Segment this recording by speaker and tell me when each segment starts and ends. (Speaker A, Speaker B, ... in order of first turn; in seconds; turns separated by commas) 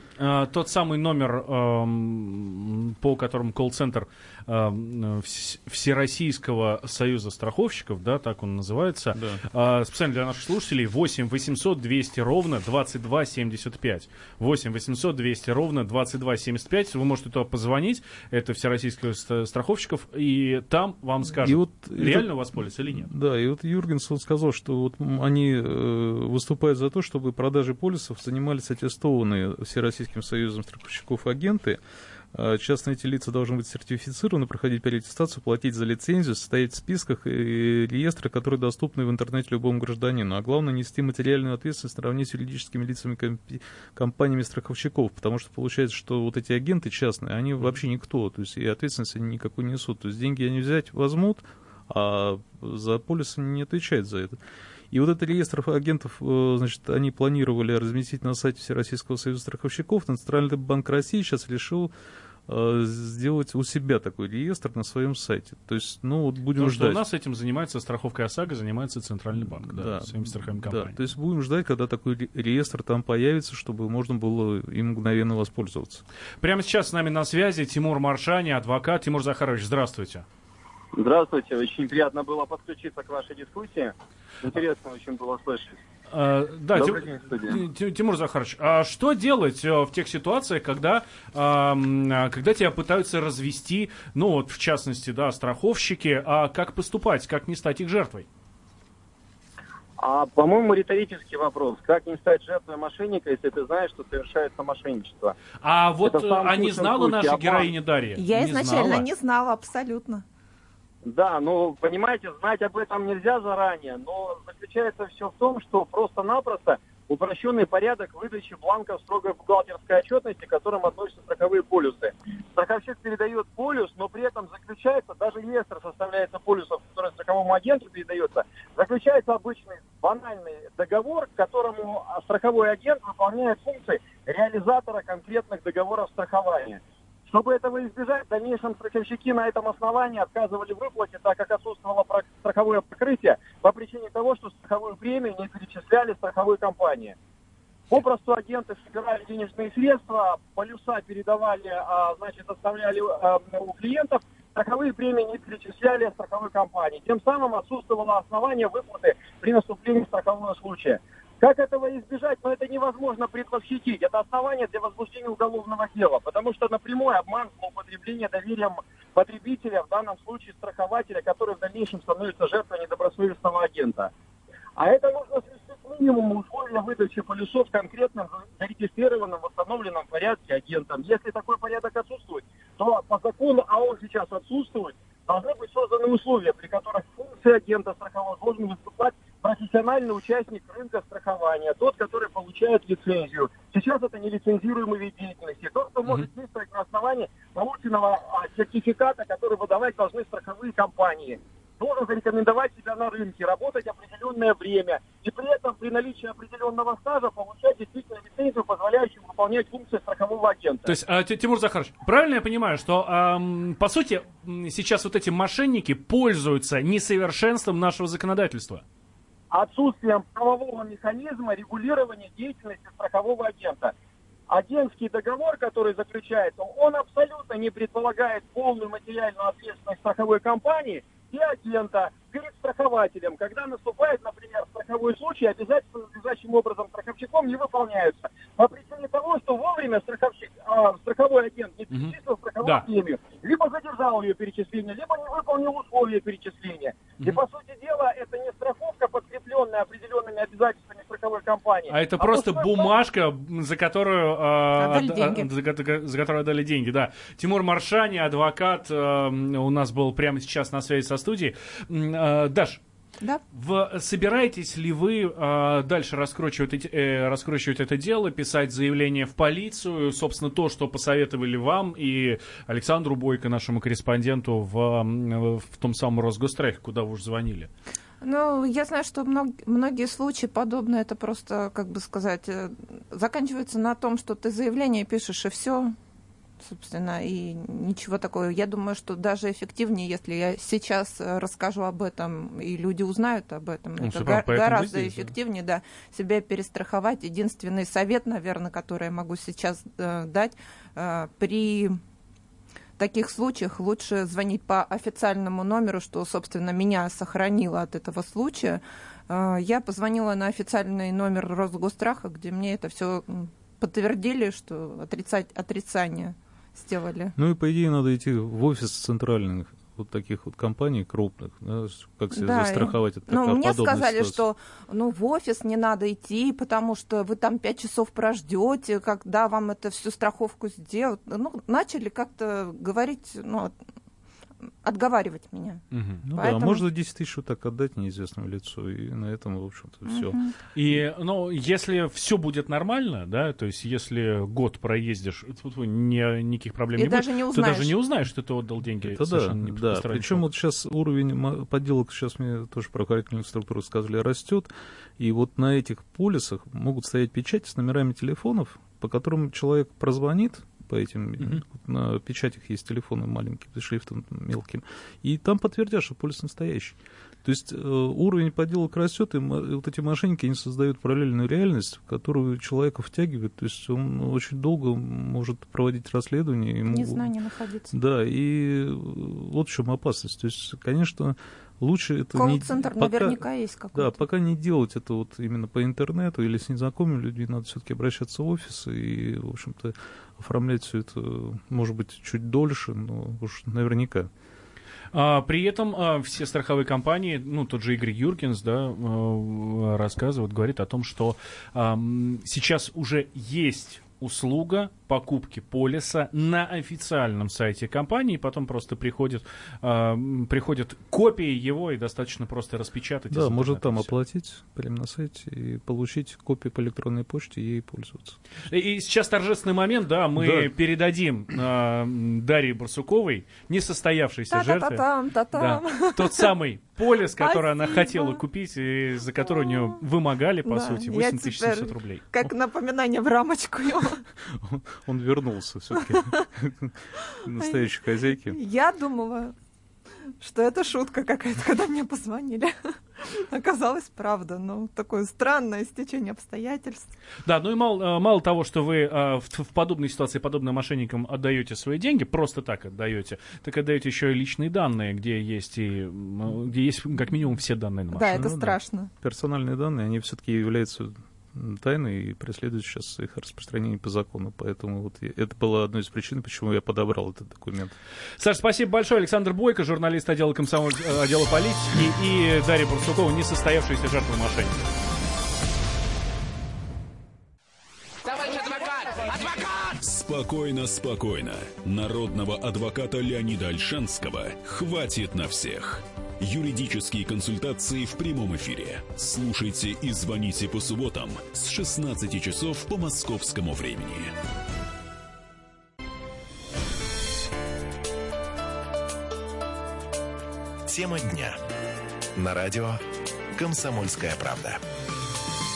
Speaker A: 0.2-23.1, Speaker B: 9.1-9.4, Speaker B: 21.3-31.8, Speaker B: 32.3-54.4, Speaker B: 54.9-61.9, Speaker B: 62.5-67.0, Speaker A: 66.6-71.0, Speaker B: 69.4-76.0, Speaker A: 76.4-80.3, Speaker C: 81.0-85.8, Speaker A: 86.1-98.3, Speaker C: 86.7-87.6, Speaker C: 100.0-105.4, Speaker A: 105.6-109.1, Speaker C: 106.1-107.7, Speaker D: 108.2-110.2, Speaker C: 111.0-147.2, Speaker C: 147.9-174.1, Speaker C: 174.8-210.9, Speaker A: 210.8-218.8, Speaker C: 219.5-223.9, Speaker C: 224.5-252.9, Speaker A: 241.9-242.9, Speaker A: 251.9-262.8, Speaker D: 254.8-255.5, Speaker A: 263.5-277.7, Speaker D: 278.2-286.0, Speaker D: 286.6-302.0, Speaker A: 294.0-295.3, Speaker D: 303.0-317.4, Speaker B: 317.4-324.4, Speaker D: 322.3-333.7, Speaker D: 334.8-335.8, Speaker A: 335.9-336.2, Speaker B: 336.2-340.4, Speaker D: 336.4-336.8, Speaker D: 340.1-340.6, Speaker A: 340.7-350.5, Speaker D: 347.0-348.0, Speaker B: 349.0-377.3, Speaker D: 376.9-377.9, Speaker B: 377.9-394.3, Speaker D: 382.4-384.2, Speaker A: 395.1-414.1, Speaker B: 413.3-418.4, Speaker A: 418.7-432.2, Speaker B: 420.4-420.7, Speaker D: 424.5-426.5, Speaker D: 427.4-428.4, Speaker D: 430.6-434.2, Speaker B: 434.4-438.6, Speaker D: 436.0-436.4, Speaker D: 438.5-439.5, Speaker D: 440.4-447.2, Speaker A: 447.4-458.5, Speaker D: 458.1-459.1, Speaker B: 458.3-468.0, Speaker A: 468.4-474.8, Speaker E: 479.9-494.3, Speaker F: 500.9-501.6, Speaker F: 502.4-503.0, Speaker F: 503.5-504.8